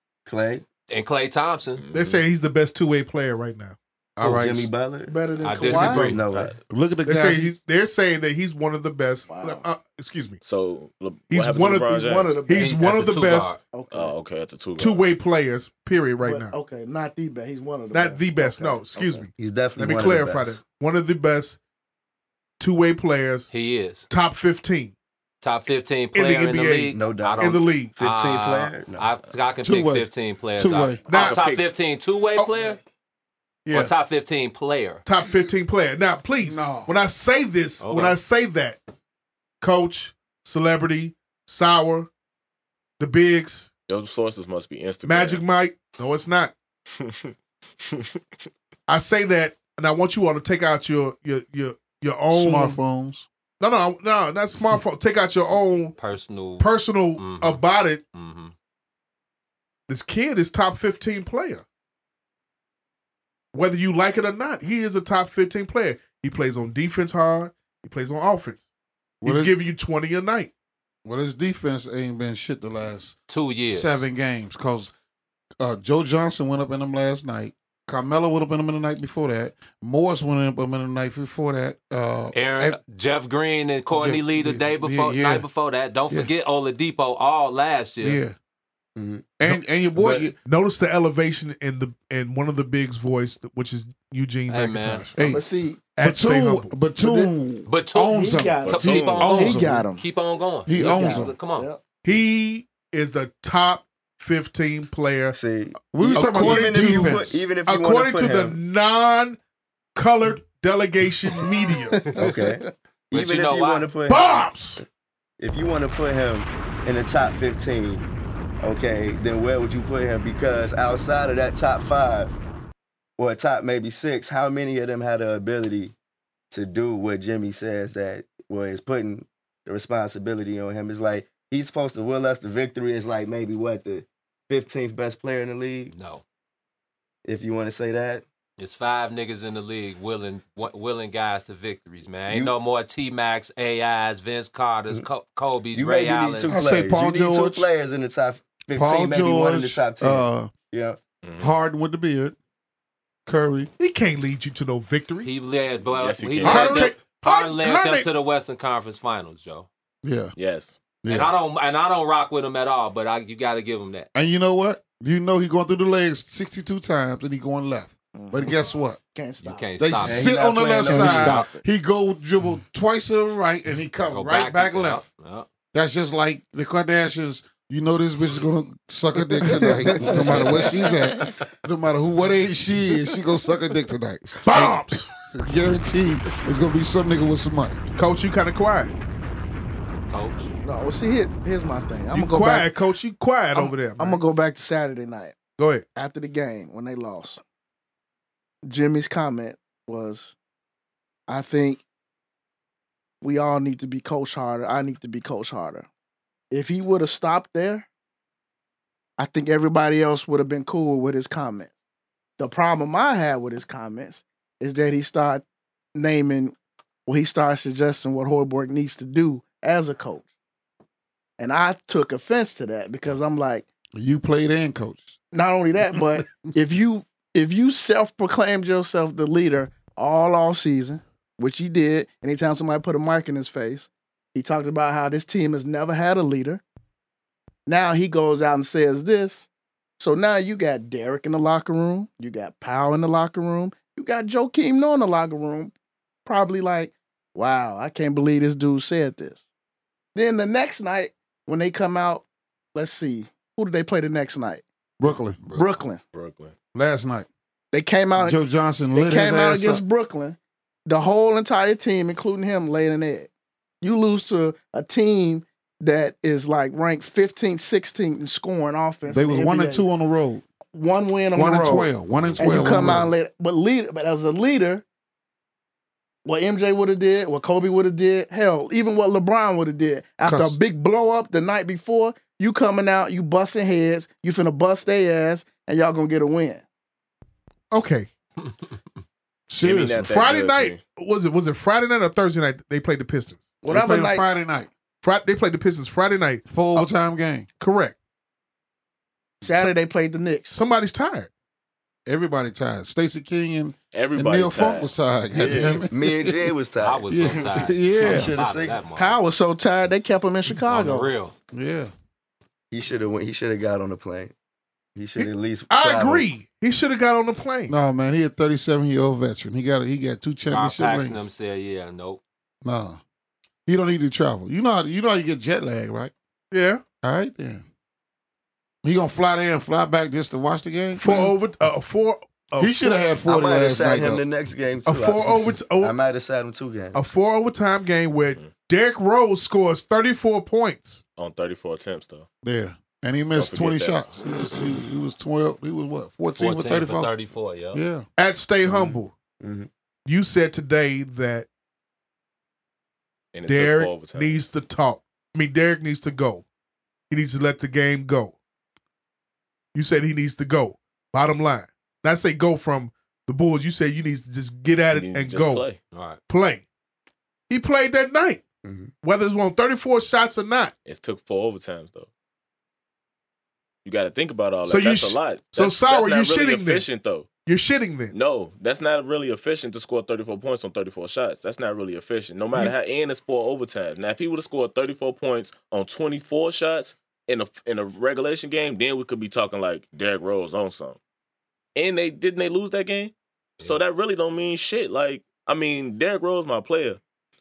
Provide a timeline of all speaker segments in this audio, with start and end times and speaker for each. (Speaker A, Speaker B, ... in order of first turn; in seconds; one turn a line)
Speaker A: 0.3-0.7
Speaker B: 0.9-1.8
Speaker C: 1.8-2.3
Speaker D: 1.9-3.8
Speaker E: 4.2-4.7
Speaker A: 4.3-6.6
Speaker F: 5.1-6.2
Speaker B: 5.4-6.5
Speaker D: 5.7-6.1
Speaker E: 6.7-7.5
Speaker D: 7.1-10.4
Speaker F: 9.3-9.7
Speaker C: 10.4-12.4
Speaker D: 11.3-13.6
Speaker F: 11.9-12.9
Speaker B: 12.6-13.6
Speaker F: 13.7-14.2
Speaker C: 13.9-15.1
Speaker D: 14.8-16.6
Speaker F: 16.2-19.3
Speaker D: 17.9-21.6
Speaker A: 19.4-20.6
Speaker D: 22.6-23.5
Speaker B: 23.5-24.1
Speaker D: 24.1-24.9
Speaker B: 25.4-32.8
Speaker D: 26.1-28.0
Speaker A: 26.9-29.1
Speaker E: 29.6-31.0
Speaker D: 31.1-31.4
Speaker C: 31.1-31.6
Speaker D: 32.4-32.7
Speaker B: 33.7-35.0
Speaker D: 35.0-38.8
Speaker E: 36.4-36.9
Speaker B: 37.8-38.2
Speaker D: 39.6-42.1
Speaker D: 43.0-43.7
Speaker C: 43.9-45.4
Speaker D: 45.0-46.5
Speaker C: 47.0-47.3
Speaker D: 48.9-52.8
Speaker E: 52.3-53.3
Speaker D: 53.6-56.0
Speaker B: 56.0-57.6
Speaker D: 56.6-58.0
Speaker B: 58.1-58.5
Speaker D: 59.9-61.6
Speaker D: 63.5-68.7
Speaker E: 69.2-69.5
Speaker D: 69.2-70.5
Speaker E: 71.0-74.9
Speaker B: 73.3-74.0
Speaker E: 75.6-82.8
Speaker B: 82.3-88.2
Speaker E: 83.9-85.5
Speaker E: 88.0-88.3
Speaker A: 89.0-89.4
Speaker E: 89.4-90.4
Speaker A: 90.0-90.3
Speaker D: 90.5-95.2
Speaker B: 94.5-95.1
Speaker E: 95.2-95.5
Speaker F: 95.2-95.8
Speaker D: 96.0-96.7
Speaker E: 96.0-99.8
Speaker F: 97.0-97.3
Speaker B: 97.7-101.7
Speaker F: 98.1-100.0
Speaker C: 98.7-99.3
Speaker E: 100.7-101.4
Speaker F: 100.7-101.8
Speaker D: 102.0-105.4
Speaker A: 105.3-108.6
Speaker E: 105.9-107.5
Speaker D: 106.1-109.4
Speaker D: 110.0-112.2
Speaker A: 112.1-114.5
Speaker B: 113.1-113.9
Speaker D: 114.1-114.8
Speaker A: 115.4-118.0
Speaker A: 118.6-122.3
Speaker A: 123.2-125.9
Speaker A: 126.5-135.9
Speaker B: 135.9-136.2
Speaker A: 137.2-138.2
Speaker B: 138.6-146.6
Speaker A: 142.3-142.6
Speaker A: 145.7-151.0
Speaker E: 146.5-147.7
Speaker E: 148.7-150.5
Speaker C: 151.2-151.5
Speaker E: 151.4-152.4
Speaker E: 153.3-153.7
Speaker D: 153.8-155.3
Speaker B: 155.2-159.7
Speaker C: 155.9-156.9
Speaker D: 156.4-158.1
Speaker E: 160.0-160.3
Speaker C: 160.4-160.8
Speaker E: 161.0-161.3
Speaker B: 161.1-164.1
Speaker E: 164.2-169.0
Speaker F: 168.1-168.6
Speaker F: 169.1-169.7
Speaker B: 169.4-171.5
Speaker E: 169.8-175.0
Speaker A: 170.0-171.5
Speaker F: 170.9-171.6
Speaker B: 174.1-175.5
Speaker E: 175.7-187.8
Speaker F: 179.5-180.2
Speaker B: 180.1-180.8
Speaker D: 184.4-185.1
Speaker D: 187.9-188.9
Speaker B: 190.1-190.5
Speaker F: 190.6-192.7
Speaker D: 192.1-194.2
Speaker F: 193.5-195.4
Speaker D: 195.6-195.8
Speaker F: 196.0-197.4
Speaker F: 198.7-200.3
Speaker F: 201.3-201.8
Speaker F: 203.2-205.9
Speaker F: 206.5-207.9
Speaker F: 209.2-211.7
Speaker F: 212.4-215.4
Speaker F: 215.9-216.6
Speaker F: 217.1-220.3
Speaker F: 221.4-223.7
Speaker E: 223.9-225.2
Speaker F: 225.3-236.6
Speaker E: 225.9-226.2
Speaker F: 237.7-239.5
Speaker F: 240.0-245.7
Speaker F: 246.2-249.4
Speaker F: 250.2-254.7
Speaker E: 255.0-255.4
Speaker B: 255.1-255.8
Speaker F: 255.5-256.0
Speaker C: 256.1-256.5
Speaker E: 256.7-257.3
Speaker F: 257.7-258.4
Speaker E: 258.2-259.8
Speaker F: 258.9-263.3
Speaker F: 263.8-269.9
Speaker E: 269.1-270.4
Speaker F: 270.7-274.8
Speaker E: 271.4-273.1
Speaker B: 272.2-273.0
Speaker F: 276.2-286.6
Speaker E: 280.2-280.6
Speaker D: 287.7-288.1
Speaker E: 289.5-290.0
Speaker C: 289.6-290.8
Speaker D: 290.0-293.6
Speaker F: 293.6-294.3
Speaker E: 293.6-294.7
Speaker D: 295.0-296.9
Speaker E: 296.5-297.5
Speaker D: 297.6-298.0
Speaker F: 299.4-300.6
Speaker D: 300.5-301.3
Speaker E: 302.1-306.4
Speaker C: 303.9-305.9
Speaker A: 305.4-308.8
Speaker B: 306.8-309.2
Speaker E: 307.1-308.3
Speaker F: 309.0-311.1
Speaker B: 310.7-311.3
Speaker E: 311.5-311.9
Speaker A: 312.7-314.3
Speaker A: 314.9-316.3
Speaker D: 315.2-317.8
Speaker E: 317.7-321.3
Speaker B: 320.5-322.2
Speaker E: 322.6-323.0
Speaker E: 323.7-326.1
Speaker D: 326.5-326.8
Speaker E: 327.0-327.6
Speaker E: 328.8-331.4
Speaker D: 331.0-333.0
Speaker E: 332.6-334.2
Speaker A: 333.2-337.0
Speaker D: 334.9-335.9
Speaker D: 336.9-341.0
Speaker C: 341.2-342.3
Speaker E: 342.4-347.1
Speaker C: 343.3-344.1
Speaker B: 346.3-347.8
Speaker E: 347.7-348.1
Speaker D: 348.2-349.1
Speaker A: 348.7-349.7
Speaker D: 350.1-351.5
Speaker C: 353.3-354.4
Speaker D: 353.4-356.4
Speaker D: 357.1-358.4
Speaker D: 359.7-365.7
Speaker C: 364.9-365.8
Speaker B: 365.9-366.2
Speaker D: 366.3-366.6
Speaker D: 367.5-368.4
Speaker A: 368.6-368.9
Speaker D: 369.0-370.7
Speaker C: 370.9-372.1
Speaker C: 373.8-377.3
Speaker D: 374.6-376.9
Speaker D: 377.4-378.1
Speaker C: 378.1-391.0
Speaker C: 391.8-397.0